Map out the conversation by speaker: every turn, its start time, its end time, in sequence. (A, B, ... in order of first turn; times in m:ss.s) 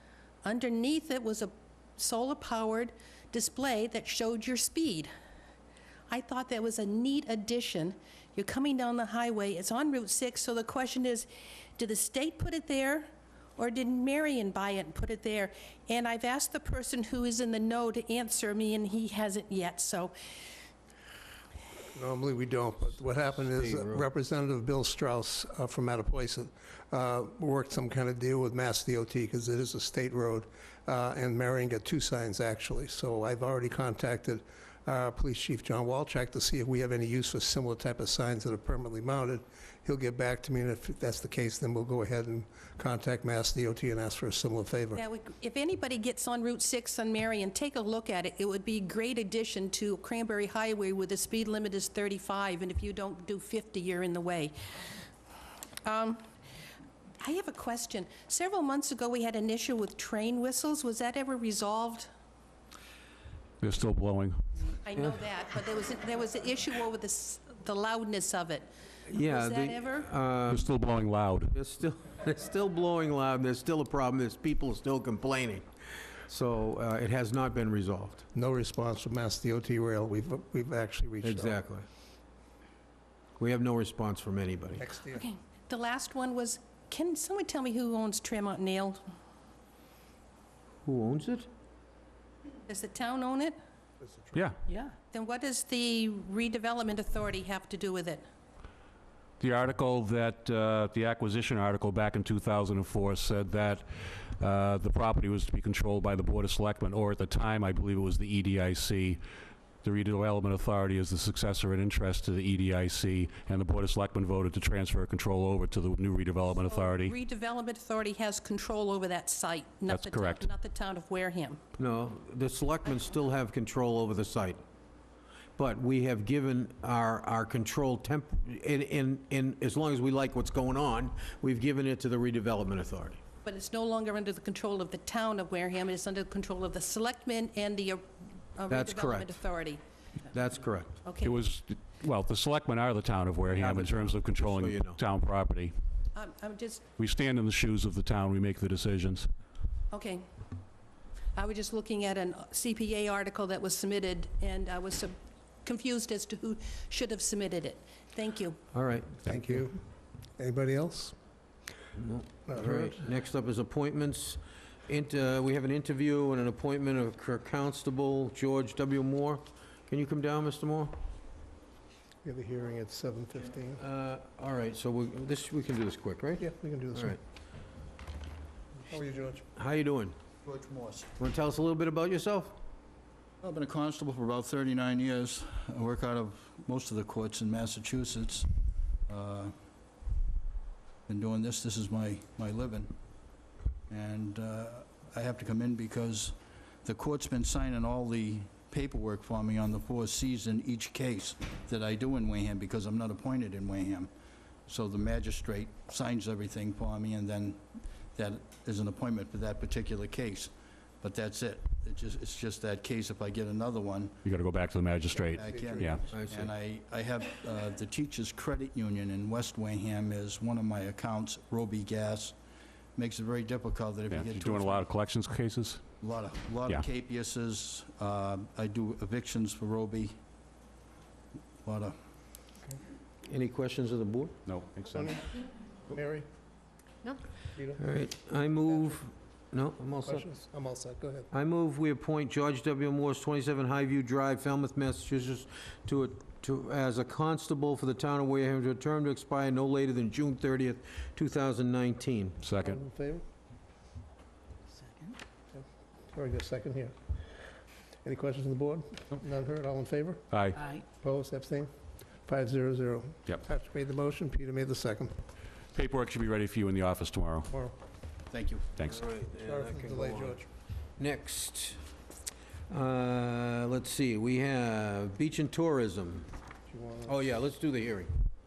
0:00.4-0:05.1 A
0:06.1-0:20.2 A
0:21.9-0:45.0 B
0:23.3-0:24.0 C
0:45.0-0:54.6 A
0:55.8-0:56.2 A
0:57.2-1:02.1 A
1:03.6-1:04.4 D
1:04.8-1:10.1 A
1:09.1-1:10.7 C
1:10.5-1:11.5 D
1:11.5-1:15.7 C
1:16.3-1:18.2 C
1:18.3-1:21.6 B
1:21.2-1:21.8 C
1:23.4-1:24.8 C
1:24.8-1:25.3 B
1:25.1-1:29.0 A
1:30.8-1:31.5 C
1:32.7-1:33.6 A
1:34.0-1:34.5 B
1:35.1-1:38.2 A
1:39.4-1:49.2 D
1:49.8-1:57.1 D
1:56.6-2:01.6 A
1:59.9-2:00.5 D
2:01.8-2:04.6 C
2:05.6-2:13.2 C
2:13.4-2:18.0 A
2:18.6-2:19.8 A
2:18.7-2:19.3 C
2:20.3-2:21.0 C
2:21.0-2:21.4 A
2:21.2-2:25.7 D
2:23.6-2:25.0 C
2:26.2-2:26.8 A
2:27.0-2:29.3 D
2:29.9-2:30.3 A
2:31.4-2:38.6 A
2:38.7-2:39.2 C
2:39.3-2:39.6 D
2:39.3-2:39.8 B
2:40.4-2:41.2 B
2:42.0-2:51.0 C
2:42.5-2:43.0 B
2:52.2-2:53.8 B
2:53.8-2:57.2 C
2:56.4-2:57.2 B
2:58.8-2:59.4 B
2:59.6-3:00.2 C
3:00.4-3:01.1 E
3:01.2-3:02.6 C
3:03.4-3:08.5 E
3:09.1-3:09.5 E
3:11.1-3:12.9 E
3:13.9-3:24.1 E
3:24.7-3:34.2 E
3:34.2-3:36.1 D
3:35.2-3:36.1 B
3:35.3-3:42.4 E
3:36.1-3:36.5 C
3:43.0-3:44.9 E
3:44.1-3:45.8 D
3:46.0-3:50.2 E
3:51.6-3:52.0 E
3:53.2-3:54.4 C
3:54.5-3:55.1 D
3:54.9-3:55.3 B
3:55.8-3:56.3 B
3:57.5-3:57.8 B
3:57.8-4:00.2 C
4:00.0-4:01.3 B
4:01.3-4:12.4 C
4:12.4-4:12.8 D
4:12.6-4:13.2 B
4:15.5-4:16.9 B
4:18.0-4:20.2 B
4:20.3-4:20.6 D
4:20.9-4:21.7 B
4:22.2-4:25.1 B
4:25.7-4:27.5 D
4:28.3-4:28.7 E
4:28.9-4:30.4 C
4:29.4-4:30.5 B
4:31.0-4:31.8 C
4:32.7-4:36.3 C
4:36.7-4:37.2 B
4:37.1-4:38.2 C